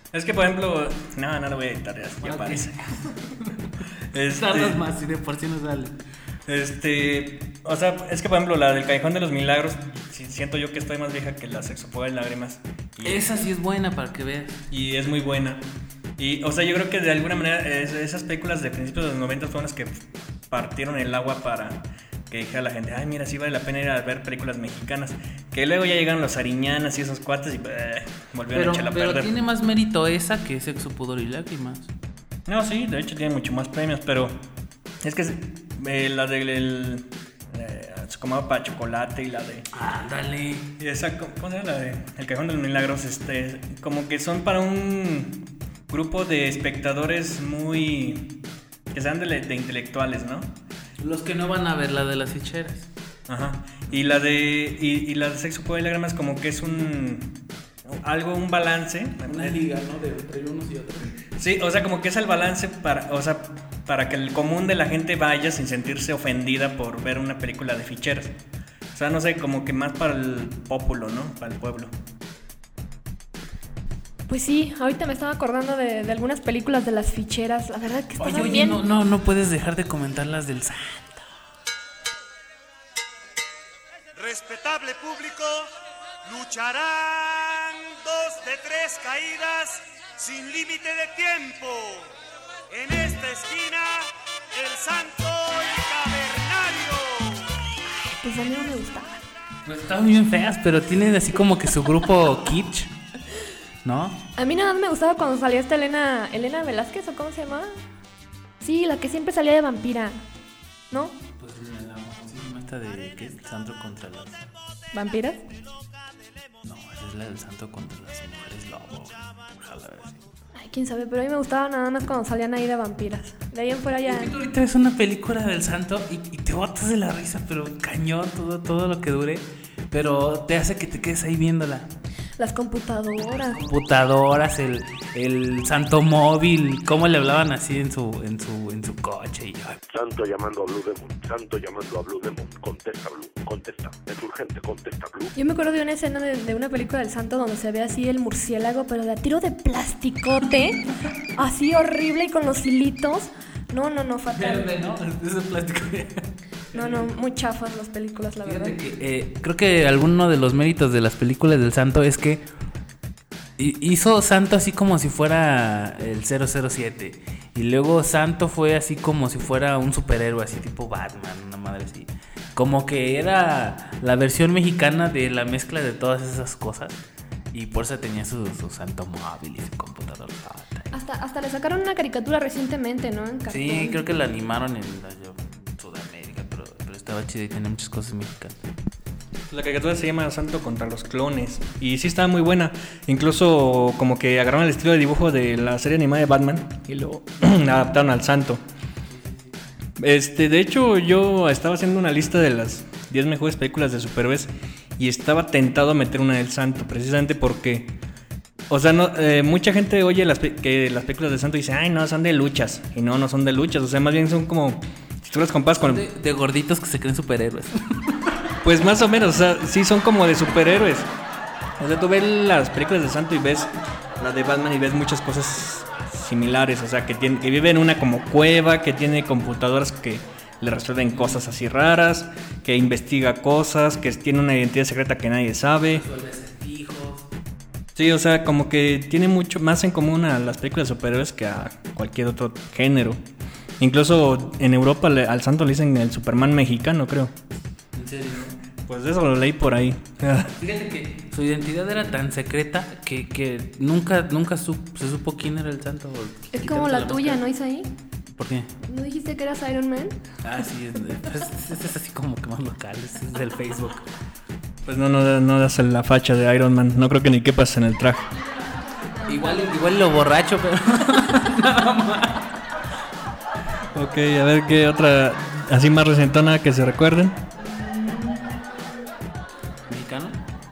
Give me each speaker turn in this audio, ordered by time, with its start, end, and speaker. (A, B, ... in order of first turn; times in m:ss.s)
0:00.1-0:02.8 A
0:02.2-0:06.0 B
0:04.1-0:04.8 A
0:06.5-0:13.3 A
0:13.0-0:14.6 B
0:14.7-0:15.7 A
0:16.2-0:29.3 A
0:28.5-0:31.9 B
0:32.5-0:34.4 A
0:35.0-0:39.7 A
0:39.7-0:40.8 B
0:40.8-0:48.4 A
0:48.9-0:50.6 A
0:51.0-0:52.9 B
0:53.3-0:59.6 A
0:59.2-1:01.2 B
1:01.4-1:08.3 A
1:08.9-1:11.9 A
1:14.3-1:18.8 C
1:18.2-1:21.3 B
1:24.1-1:25.7 D
1:26.2-1:32.1 D
1:32.7-1:37.5 D
1:37.9-1:39.2 C
1:39.6-1:42.9 B
1:43.8-1:44.2 B
1:44.4-1:47.8 C
1:48.6-1:50.2 C
1:50.9-1:51.2 C
1:51.4-1:54.5 B
1:54.9-1:55.4 C
1:56.6-2:00.3 B
2:00.5-2:04.3 C
2:04.0-2:11.9 B
2:12.4-2:13.6 C
2:13.3-2:19.8 B
2:19.9-2:25.3 E
2:25.3-2:34.7 C
2:34.3-2:37.1 B
2:36.7-2:38.8 C
2:38.4-2:42.4 B
2:43.6-2:57.0 B
2:57.5-3:00.9 B
3:00.9-3:04.0 C
3:03.5-3:08.6 B
3:09.5-3:18.6 A
3:19.1-3:19.5 B
3:20.0-3:28.0 A
3:28.7-3:36.1 A
3:35.8-3:38.5 B
3:38.6-3:41.1 A
3:41.8-3:56.0 A
3:51.1-3:51.4 B
3:55.9-3:57.3 B
3:58.0-4:03.2 A
4:03.8-4:07.3 A
4:07.9-4:08.6 B
4:08.8-4:10.5 A
4:10.6-4:17.4 B
4:16.5-4:17.9 C
4:18.3-4:18.7 B
4:18.8-4:20.2 C
4:20.4-4:24.1 B
4:24.8-4:28.3 A
4:28.3-4:30.0 C
4:29.3-4:32.6 B
4:33.9-4:37.4 A
4:37.6-4:39.0 C
4:39.9-4:40.5 B